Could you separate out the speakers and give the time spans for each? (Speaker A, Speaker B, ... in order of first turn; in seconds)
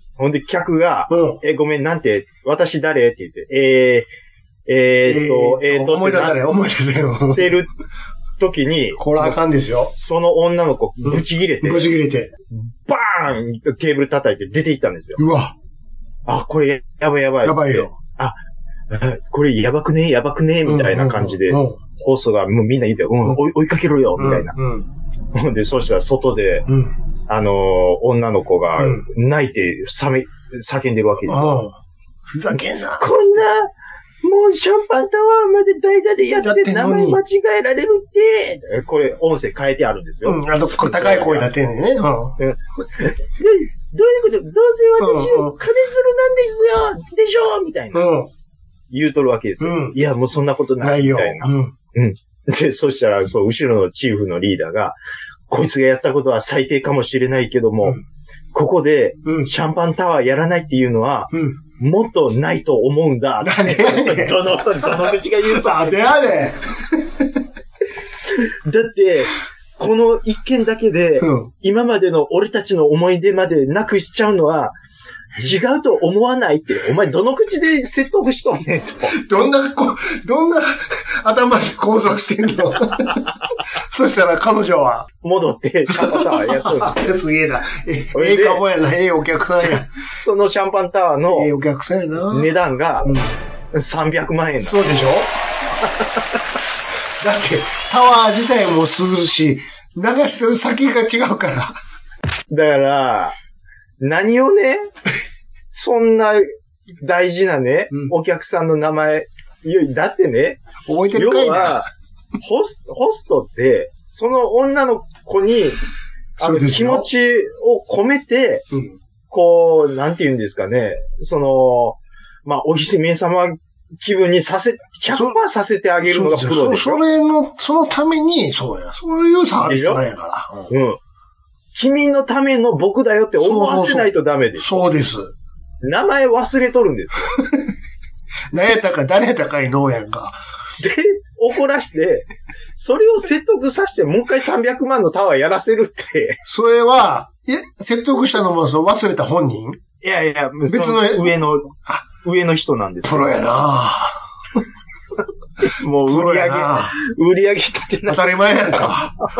Speaker A: 0.2-4.1, 4.7-6.4, 7.3-7.7, 8.4-9.4, 9.9-11.9, 12.5-15.2, 16.2-18.4, 18.9-24.6, 25.3-26.7, 27.3-31.6, 33.0-33.7, 34.2-41.5, 42.4-48.1, 48.9-55.0, 55.5-58.0, 58.5-66.1, 68.3-74.7, 75.4-79.1, 85.2-87.1, 88.1-88.6, 89.5-91.5, 92.3-93.1, 93.7-95.0, 102.5-103.3, 104.0-104.9, 105.7-106.5, 107.0-110.6, 111.1-115.8, 116.4-118.7, 119.3-127.0, 129.6-130.0, 130.7-131.0, 131.7-134.9, 135.8-137.4, 140.8-146.4, 150.0-153.4, 155.6-158.9
Speaker B: 1.1-1.4, 5.0-7.6, 9.0-9.9, 11.0-12.3, 15.2-15.5, 17.4-17.9, 20.6-21.8, 24.2-24.9, 26.7-26.9, 28.8-29.1, 31.3-31.8, 32.3-33.4, 36.3-37.2, 40.2-42.4, 45.0-45.6, 47.9-48.3, 49.6-50.0, 50.8-51.7, 59.2-59.5, 61.3-61.6, 63.4-67.4, 71.2-71.5, 79.1-85.1, 85.9-89.9, 91.3-92.5, 93.0-93.3, 94.6-95.3, 96.5-101.8, 110.9-111.8, 116.4-117.1, 118.7-119.0, 125.1-125.4, 126.0-130.7, 133.4-135.3, 137.3-137.7, 138.5-140.4, 146.5-149.8, 150.7-152.0, 153.0-154.2, 156.1-157.0, 158.1-159.1